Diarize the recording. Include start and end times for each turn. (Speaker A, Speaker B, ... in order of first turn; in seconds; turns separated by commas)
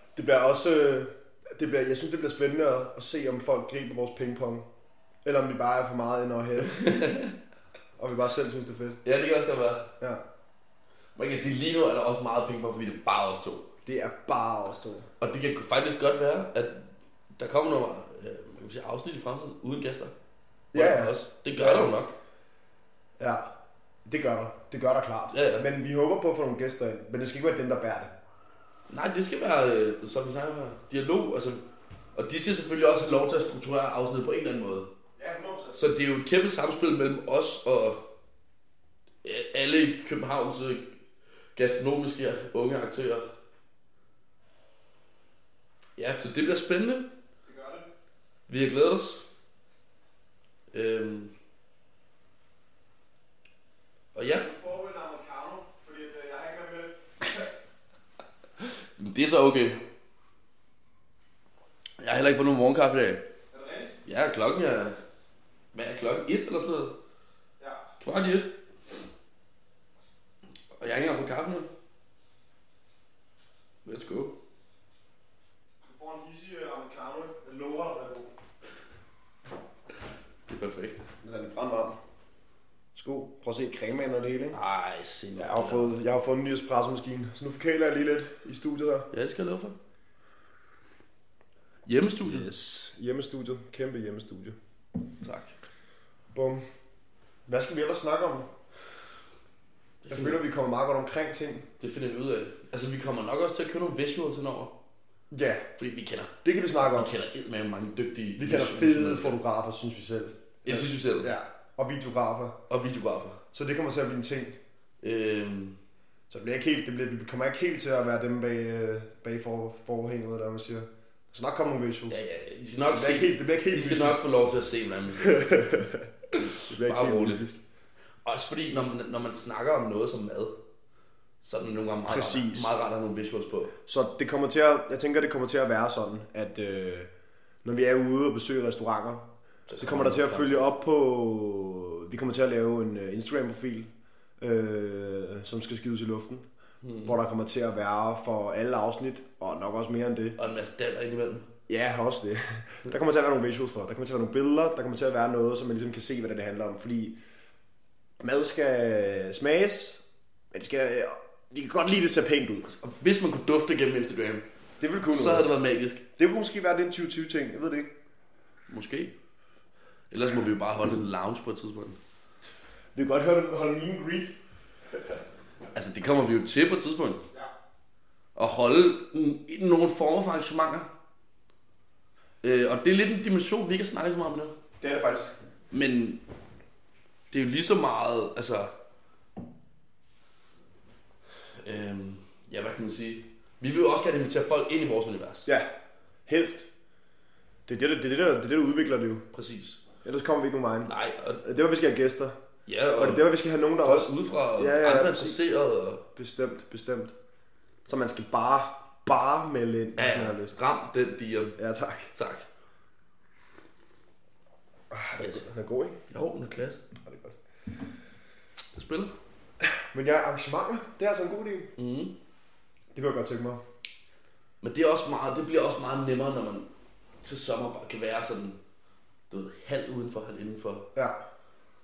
Speaker A: 0.1-4.7, Speaker A: 5.2-6.8, Speaker B: 6.6-7.3, Speaker A: 8.0-9.0, Speaker B: 9.0-9.9, Speaker B: 11.2-13.7, Speaker A: 13.8-15.1, Speaker B: 15.2-20.1, Speaker A: 20.7-22.0, Speaker B: 20.7-22.1, Speaker A: 23.2-23.5, Speaker A: 24.1-28.1, Speaker B: 25.3-25.7, Speaker B: 28.9-31.6, Speaker B: 32.1-34.9, Speaker A: 35.2-35.8, Speaker B: 35.7-38.0, Speaker B: 39.2-41.0, Speaker B: 41.5-43.3, Speaker B: 46.0-47.1, Speaker A: 47.5-47.9, Speaker B: 48.5-49.2, Speaker B: 50.7-51.3, Speaker B: 54.1-54.5, Speaker A: 54.4-57.5, Speaker B: 58.6-59.8, Speaker B: 62.0-63.2, Speaker A: 63.5-64.0, Speaker B: 64.0-65.0, Speaker B: 65.7-67.0, Speaker B: 68.0-68.5, Speaker B: 70.8-71.7, Speaker B: 73.8-74.4, Speaker A: 75.8-78.3, Speaker B: 80.5-81.1, Speaker A: 81.2-82.0, Speaker A: 83.0-84.6, Speaker B: 84.5-86.0, Speaker A: 85.4-89.1, Speaker B: 89.1-89.8, Speaker B: 91.9-92.5, Speaker A: 92.2-94.6, Speaker B: 95.2-95.6, Speaker A: 96.3-96.6, Speaker A: 97.5-98.5, Speaker B: 100.0-100.4, Speaker A: 100.1-101.7, Speaker B: 101.8-104.7, Speaker A: 105.3-105.6, Speaker B: 105.8-109.4, Speaker A: 106.4-107.1, Speaker A: 108.4-112.6, Speaker B: 110.7-111.3, Speaker B: 112.7-113.4, Speaker A: 113.5-114.6, Speaker B: 115.0-115.8, Speaker A: 116.3-122.2, Speaker B: 122.1-127.4, Speaker A: 122.8-124.2, Speaker A: 125.2-127.6, Speaker B: 128.2-130.6, Speaker B: 131.4-133.7, Speaker A: 132.1-132.8, Speaker A: 133.9-137.1, Speaker A: 137.6-146.5, Speaker B: 139.7-140.7, Speaker B: 146.8-147.2, Speaker A: 147.0-150.4, Speaker B: 150.4-151.5, Speaker A: 151.7-157.2, Speaker A: 158.2-160.0, Speaker A: 160.5-162.7, Speaker B: 162.6-164.4, Speaker A: 164.8-165.5, Speaker B: 165.1-166.0, Speaker A: 166.2-167.9, Speaker B: 168.7-169.1, Speaker B: 170.1-172.0, Speaker A: 172.9-174.3, Speaker B: 175.7-177.2, Speaker B: 178.4-180.9, Speaker B: 182.4-184.6, Speaker A: 184.8-185.3, Speaker B: 185.7-186.2, Speaker B: 187.3-188.7, Speaker B: 191.6-195.5, Speaker A: 196.3-196.7, Speaker A: 197.7-199.2, Speaker B: 199.3-199.8, Speaker A: 200.0-200.9, Speaker B: 200.9-201.4, Speaker A: 201.4-202.3, Speaker B: 202.7-203.3, Speaker A: 203.0-205.4, Speaker B: 203.8-206.0, Speaker A: 206.2-207.1, Speaker A: 207.9-210.6, Speaker B: 210.0-211.6, Speaker A: 211.6-212.1, Speaker B: 212.1-212.5, Speaker A: 214.9-216.0, Speaker B: 215.2-215.5, Speaker B: 216.1-216.8, Speaker A: 217.0-217.4, Speaker B: 218.7-219.1, Speaker A: 219.6-221.7, Speaker B: 221.8-222.1, Speaker A: 222.9-223.6, Speaker B: 224.6-226.7, Speaker B: 227.2-228.6, Speaker B: 229.3-230.9, Speaker A: 230.9-231.2